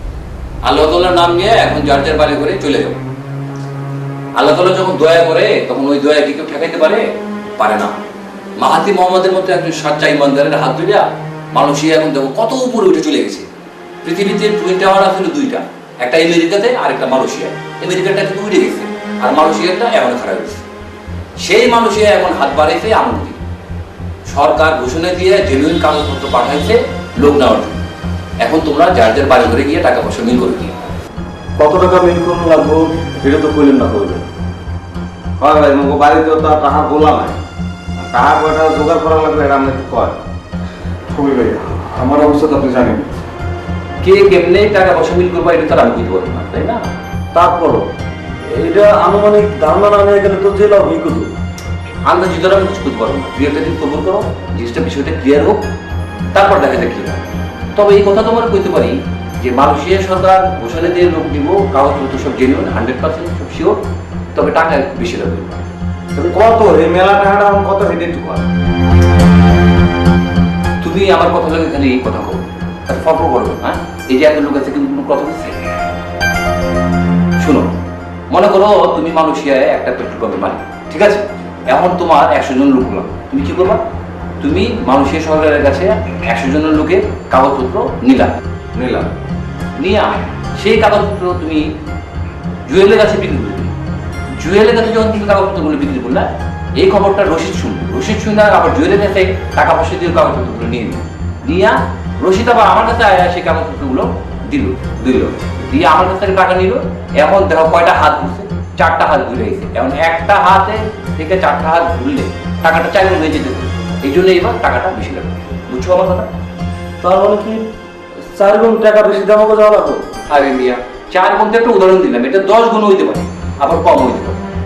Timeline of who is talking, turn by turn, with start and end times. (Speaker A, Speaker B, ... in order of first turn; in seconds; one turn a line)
Speaker A: 0.6-3.0
Speaker A: 4.3-8.0
Speaker A: 8.6-13.5
Speaker A: 14.0-20.7
Speaker A: 21.4-23.4
Speaker A: 24.3-27.8
Speaker A: 28.4-30.8
Speaker B: 31.6-34.3
Speaker C: 35.4-37.3
Speaker C: 38.1-40.1
Speaker A: 44.0-46.9
Speaker B: 47.3-47.9
Speaker B: 48.6-51.3
Speaker A: 52.0-55.6
Speaker A: 56.3-63.8
Speaker A: 64.3-65.6
Speaker C: 66.2-68.4
Speaker A: 70.8-75.6
Speaker A: 77.4-77.7
Speaker A: 78.3-83.8
Speaker A: 84.4-88.4
Speaker C: 88.8-89.1
Speaker A: 89.8-91.7
Speaker A: 92.7-93.7
Speaker A: 94.4-116.3
Speaker B: 117.0-117.6
Speaker B: 118.3-120.0
Speaker A: 120.3-124.4